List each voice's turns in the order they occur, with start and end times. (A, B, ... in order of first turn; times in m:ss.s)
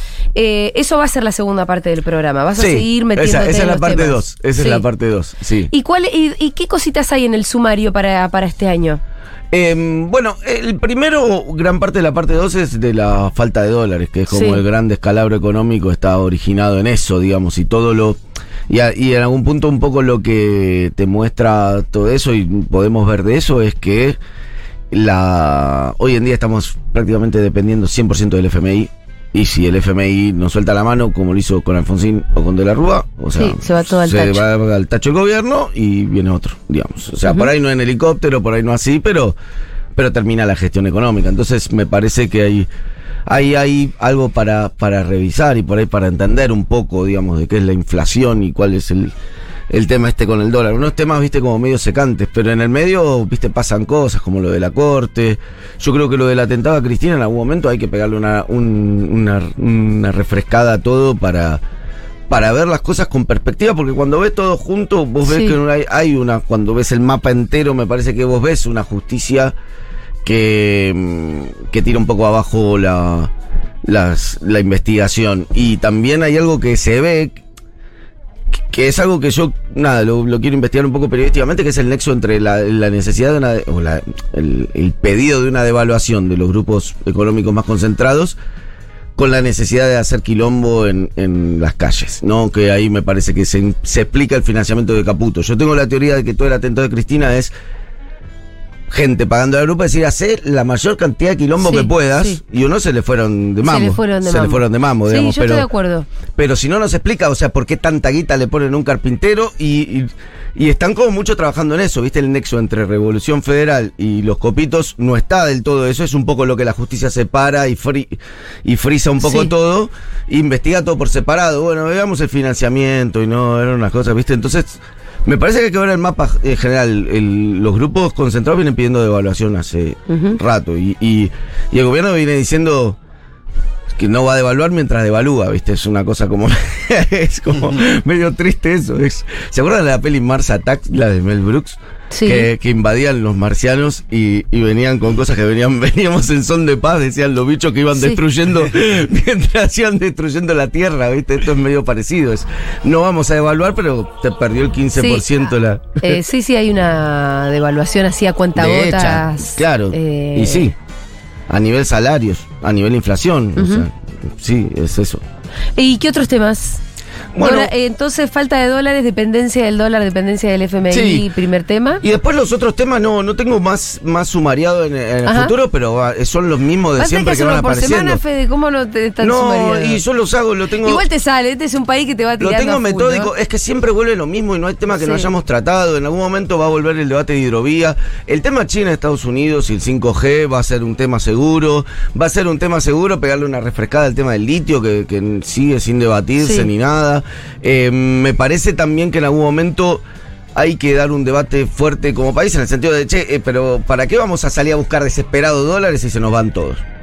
0:00.4-0:04.8 A
0:02.6-0:05.7 B
0:05.7-0:09.0 A
0:09.5-0:24.2 B
0:14.3-0:14.6 A
0:24.9-0:39.4 B
0:33.4-0:34.4 A
0:40.0-0:42.7 B
0:43.3-0:49.1 B
0:49.7-1:01.6 B
1:02.3-1:09.5 B
1:05.3-1:05.6 A
1:10.2-1:13.3 B
1:13.8-1:17.4 B
1:18.6-1:28.4 B
1:29.2-1:37.5 B
1:38.9-1:45.7 B
1:41.6-1:42.4 A
1:43.6-1:46.1 A
1:46.4-2:13.0 B
1:59.2-1:59.5 A
2:10.1-2:10.4 A
2:14.0-2:36.2 B
2:22.1-2:22.5 A
2:28.0-2:28.2 A
2:35.0-2:35.3 A
2:36.0-2:40.7 A
2:38.6-2:40.7 B
2:41.5-2:45.2 B
2:43.6-2:43.8 A
2:45.8-2:46.8 A
2:47.3-2:47.7 B
2:47.4-2:52.0 A
2:50.9-2:51.3 B
2:52.0-2:58.2 B
2:55.2-2:55.5 A
2:57.0-3:00.0 A
2:59.2-3:01.0 B
3:00.8-3:03.3 A
3:02.4-3:20.0 B
3:05.0-3:05.3 A
3:16.4-3:16.7 A
3:20.6-3:26.8 B